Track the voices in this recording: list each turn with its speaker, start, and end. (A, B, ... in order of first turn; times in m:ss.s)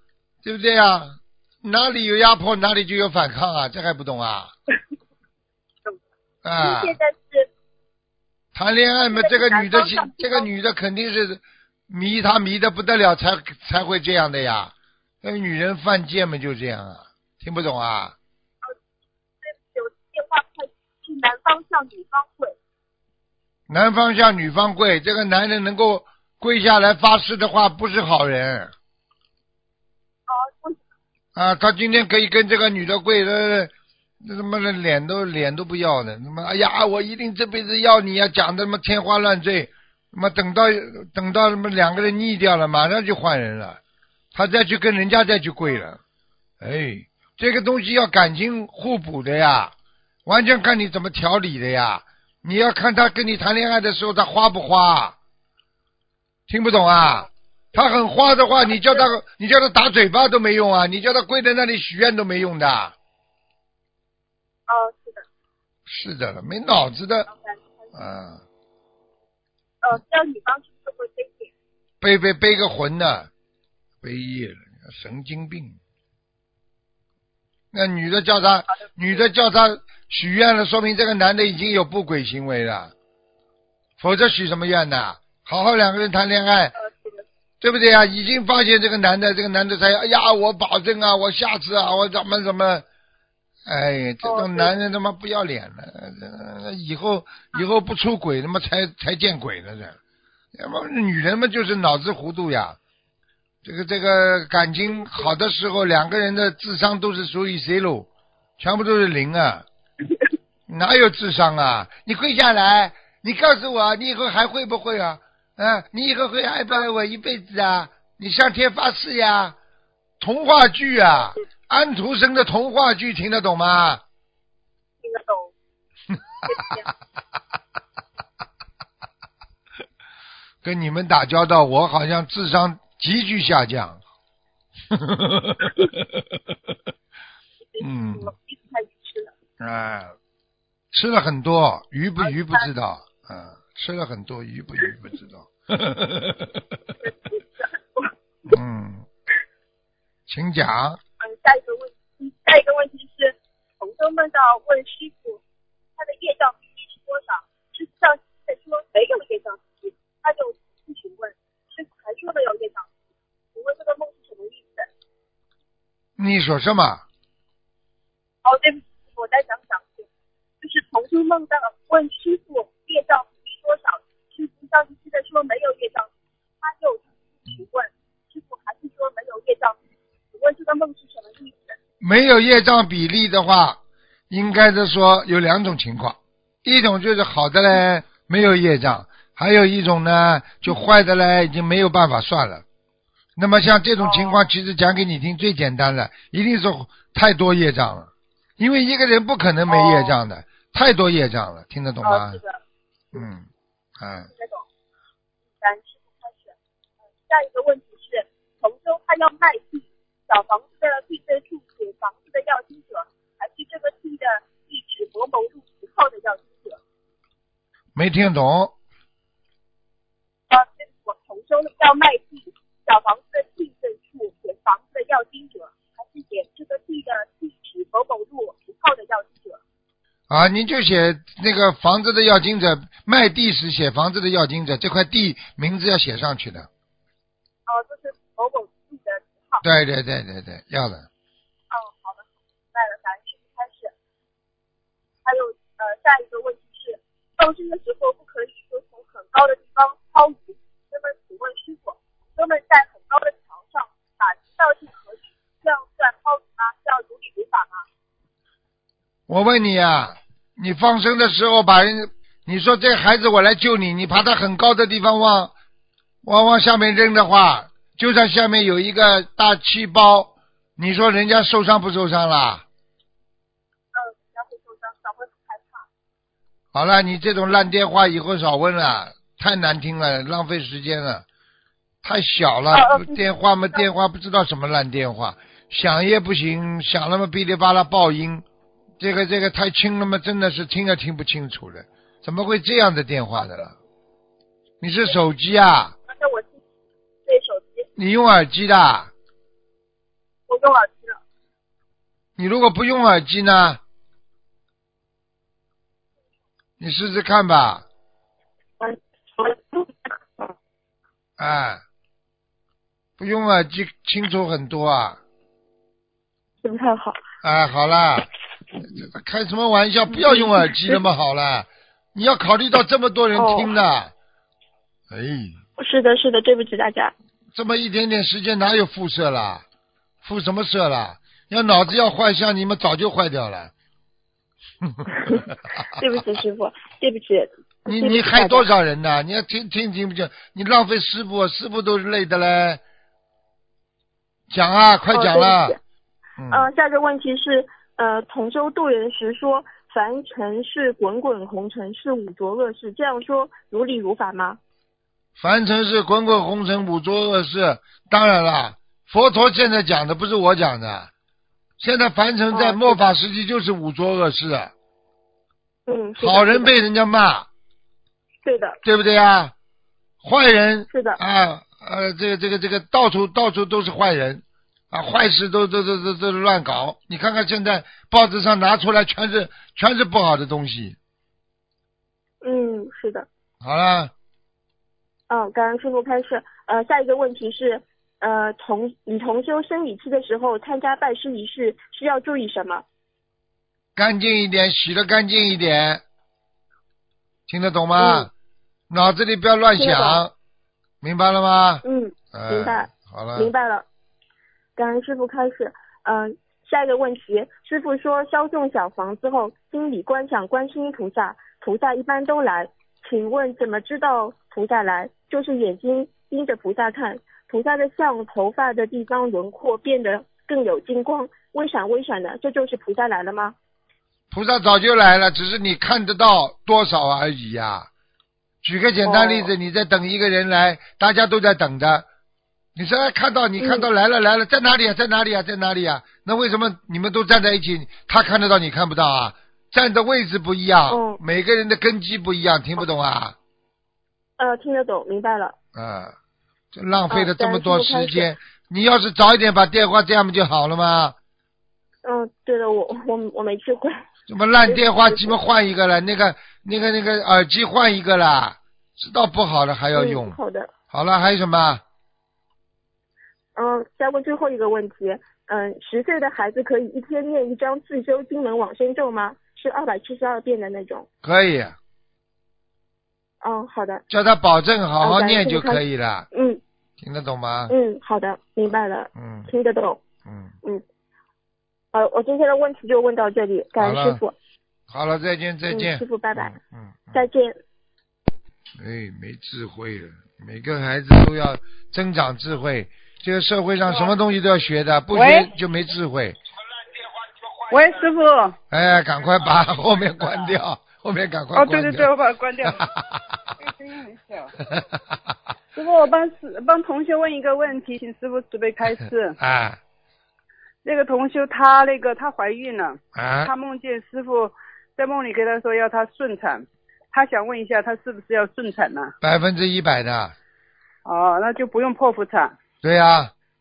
0:00.4-0:04.5 A
0:06.4-0:07.0 A
0:06.6-0:07.5 B
0:08.6-0:18.2 A
0:09.0-0:10.5 B
0:19.4-0:22.6 B
0:23.7-0:28.7 A
0:30.3-0:30.8 B
0:31.4-0:43.8 A
0:44.3-0:46.0 A
0:46.6-0:49.7 A
0:50.3-0:55.2 A
0:56.5-1:02.9 A
0:58.7-0:59.0 B
1:04.7-1:05.2 B
1:05.9-1:07.3 A
1:07.3-1:07.9 B
1:07.9-1:08.4 A
1:09.8-1:11.5 B
1:12.0-1:13.3 A
1:14.0-1:15.8 A
1:17.7-1:22.9 A
1:24.0-1:26.7 A
1:26.8-1:27.2 B
1:27.6-1:32.8 A
1:33.7-1:40.0 A
1:34.2-1:34.7 B
1:40.6-1:42.8 A
1:43.6-1:48.1 A
1:48.6-1:49.6 A
1:50.7-1:59.6 A
2:00.2-2:04.0 A
2:05.0-2:05.5 B
2:06.4-2:06.9 B
2:10.6-2:14.0 A
2:14.9-2:16.0 A
2:17.7-2:19.3 B
2:17.8-2:18.3 A
2:19.6-2:20.2 A
2:20.9-2:26.6 A
2:22.2-2:22.7 B
2:27.0-2:28.1 B
2:28.5-2:29.1 A
2:30.3-2:31.0 A
2:31.2-2:35.4 B
2:36.0-2:42.9 B
2:43.5-2:44.9 B
2:46.2-2:47.0 A
2:48.4-2:50.1 B
2:50.6-2:59.8 B
3:00.3-3:01.8 B
3:02.0-3:12.6 A
3:13.4-3:22.4 A
3:14.0-3:14.4 B
3:19.7-3:20.2 B
3:22.0-3:22.6 B
3:23.1-3:23.5 A
3:24.0-3:24.3 A
3:24.3-3:24.6 B
3:25.6-3:26.6 B
3:27.3-3:36.8 B
3:38.0-3:38.7 A
3:40.5-3:49.6 B
3:50.3-3:56.7 A
3:57.7-3:59.6 B
3:59.6-4:01.1 A
4:01.7-4:03.9 B
4:05.2-4:17.9 B
4:19.3-4:25.5 A
4:26.2-4:32.6 A
4:33.9-4:35.9 B
4:36.7-4:41.2 A
4:42.0-4:48.4 A
4:42.7-4:43.2 B
4:49.0-4:53.8 A
4:54.8-4:55.9 A
4:56.1-4:56.6 B
4:57.2-4:57.9 B
4:58.0-4:59.1 A
5:00.5-5:01.2 B
5:02.4-5:03.8 A
5:06.8-5:07.8 A
5:08.8-5:10.5 C
5:11.4-5:11.8 A
5:13.2-5:15.2 A
5:16.6-5:17.2 C
5:17.4-5:18.3 A
5:18.8-5:24.1 A
5:23.4-5:23.7 C
5:25.1-5:25.6 A
5:25.8-5:27.1 C
5:27.6-5:29.6 A
5:30.2-5:33.7 A
5:36.0-5:38.7 C
5:37.9-5:42.8 A
5:44.5-5:45.8 A
5:45.1-5:45.8 C
5:46.4-5:46.7 A
5:46.5-5:54.6 C
5:55.4-6:01.1 A
6:01.8-6:04.7 A
6:02.5-6:03.1 C
6:05.9-6:06.7 C
6:06.2-6:07.5 A
6:08.4-6:08.8 C
6:08.8-6:09.5 A
6:10.2-6:21.0 A
6:10.9-6:11.2 C
6:22.4-6:23.3 C
6:23.6-6:24.1 A
6:25.3-6:32.8 C
6:34.0-6:36.0 A
6:37.5-6:38.3 A
6:38.0-6:38.3 C
6:38.9-6:40.3 A
6:39.8-6:40.2 C
6:41.0-6:43.5 A
6:41.8-6:43.9 C
6:44.8-7:03.6 C
7:04.3-7:07.9 A
7:08.6-7:12.0 A
7:09.0-7:09.5 C
7:12.8-7:23.4 A
7:13.6-7:13.9 C
7:20.9-7:21.2 C
7:24.4-7:25.6 C
7:25.8-7:26.1 A
7:26.7-7:31.2 A
7:27.1-7:28.3 C
7:32.0-7:34.0 C
7:34.3-7:40.4 A
7:34.6-7:35.4 C
7:39.9-7:40.7 C
7:40.9-7:41.8 A
7:43.6-7:51.1 C
7:51.2-7:51.8 A
7:53.4-7:54.0 C
7:54.1-7:56.3 A
7:55.0-7:56.6 C
7:57.0-7:57.8 A
7:57.7-8:00.0 C
7:59.2-7:59.5 A
8:00.2-8:00.6 A
8:01.9-8:04.3 C
8:03.8-8:04.2 A
8:04.9-8:07.3 A
8:05.7-8:06.6 C
8:07.1-8:07.6 C
8:08.8-8:16.4 A
8:15.1-8:15.5 D
8:17.7-8:18.6 D
8:18.7-8:22.1 A
8:21.5-8:22.9 D
8:22.6-8:23.2 A
8:23.6-8:24.6 D
8:25.7-8:29.4 D
8:29.4-8:29.8 A
8:30.8-8:39.1 D
8:33.2-8:33.5 A
8:39.2-8:40.3 A
8:41.0-8:42.6 D
8:42.8-8:43.3 A